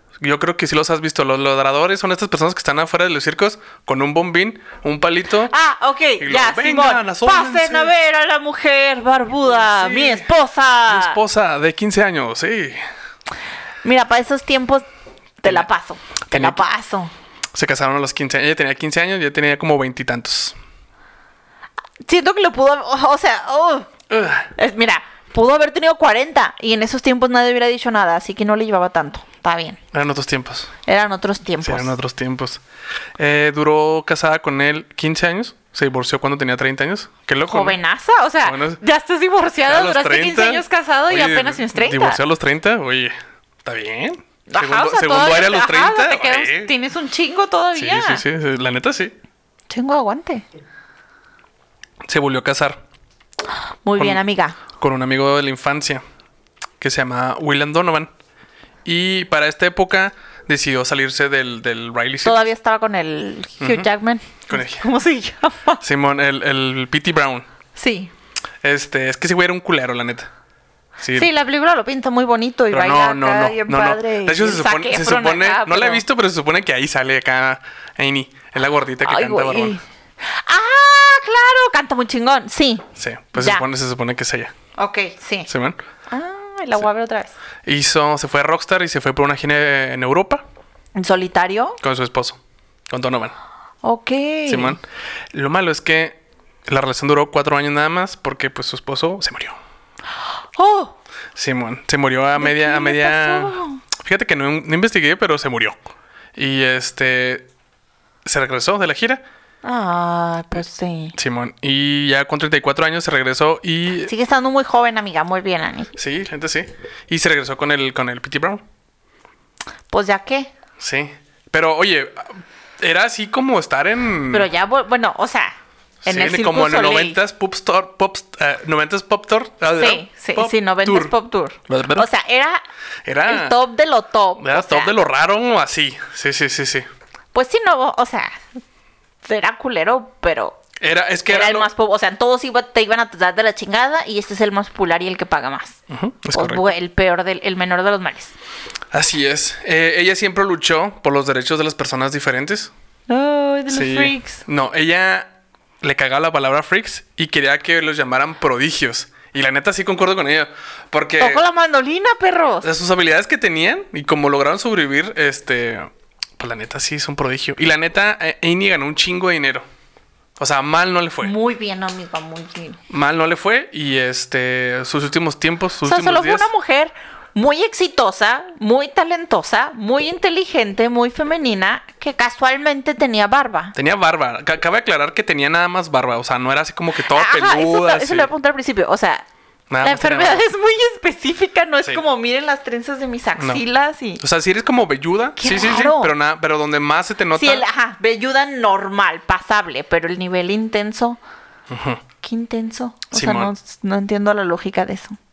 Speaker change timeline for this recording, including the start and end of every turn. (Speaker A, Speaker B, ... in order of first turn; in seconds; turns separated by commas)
Speaker A: 0.2-5.5, Speaker B: 5.5-11.2, Speaker A: 6.2-7.9, Speaker A: 9.6-10.3, Speaker A: 10.9-12.8, Speaker B: 13.8-14.8, Speaker B: 15.4-17.1, Speaker A: 16.3-16.6, Speaker A: 17.5-20.6, Speaker B: 22.0-23.9, Speaker A: 24.1-24.5, Speaker B: 24.6-29.8, Speaker A: 29.9-30.7, Speaker B: 30.9-32.0, Speaker A: 31.6-32.6, Speaker A: 33.2-37.8, Speaker B: 37.5-42.2, Speaker A: 38.4-38.8, Speaker A: 39.7-46.7, Speaker B: 44.5-48.2, Speaker A: 47.8-49.2, Speaker B: 49.7-50.5, Speaker A: 52.1-52.8, Speaker B: 53.9-54.6, Speaker A: 54.0-56.0, Speaker A: 56.8-58.1, Speaker A: 58.9-62.5, Speaker B: 62.2-65.8, Speaker A: 63.6-63.9, Speaker A: 64.5-64.9, Speaker A: 65.8-67.5, Speaker B: 67.8-68.1, Speaker A: 68.6-70.3, Speaker A: 71.0-71.3, Speaker B: 71.1-76.0, Speaker A: 72.7-79.8, Speaker B: 79.0-83.6, Speaker A: 83.0-84.5, Speaker B: 84.8-85.5, Speaker A: 85.5-85.8, Speaker B: 86.1-87.3, Speaker A: 87.7-90.4, Speaker B: 91.0-91.8, Speaker A: 91.8-93.3, Speaker B: 93.8-94.8, Speaker A: 94.5-94.8, Speaker A: 95.3-99.6, Speaker B: 100.6-101.0, Speaker A: 101.4-105.8, Speaker B: 102.4-103.8, Speaker A: 106.4-107.5, Speaker A: 108.2-109.2, Speaker B: 109.6-111.2, Speaker A: 111.2-114.1, Speaker B: 114.1-115.9, Speaker A: 116.0-118.6, Speaker B: 119.9-120.5, Speaker A: 120.8-124.5, Speaker B: 124.3-127.2, Speaker A: 126.0-131.1, Speaker B: 129.8-132.6, Speaker A: 131.7-132.1, Speaker A: 133.1-133.6, Speaker B: 133.3-134.9, Speaker A: 134.4-136.9, Speaker B: 137.3-138.4, Speaker B: 139.2-140.6, Speaker A: 140.8-141.7, Speaker B: 141.3-145.8, Speaker A: 145.9-146.7, Speaker B: 146.3-148.3, Speaker A: 148.9-152.7, Speaker B: 153.1-154.4, Speaker A: 153.7-161.4, Speaker B: 161.2-162.7, Speaker A: 162.6-169.7, Speaker A: 170.4-171.3, Speaker B: 171.2-172.8, Speaker A: 172.9-176.5, Speaker B: 175.8-183.8, Speaker A: 183.8-188.3, Speaker B: 187.1-189.3, Speaker A: 189.7-190.5, Speaker B: 189.8-194.2, Speaker A: 193.4-193.6, Speaker A: 194.2-197.6, Speaker B: 195.4-196.1, Speaker B: 197.3-201.2, Speaker A: 201.7-202.0, Speaker B: 202.2-205.2, Speaker A: 203.1-203.5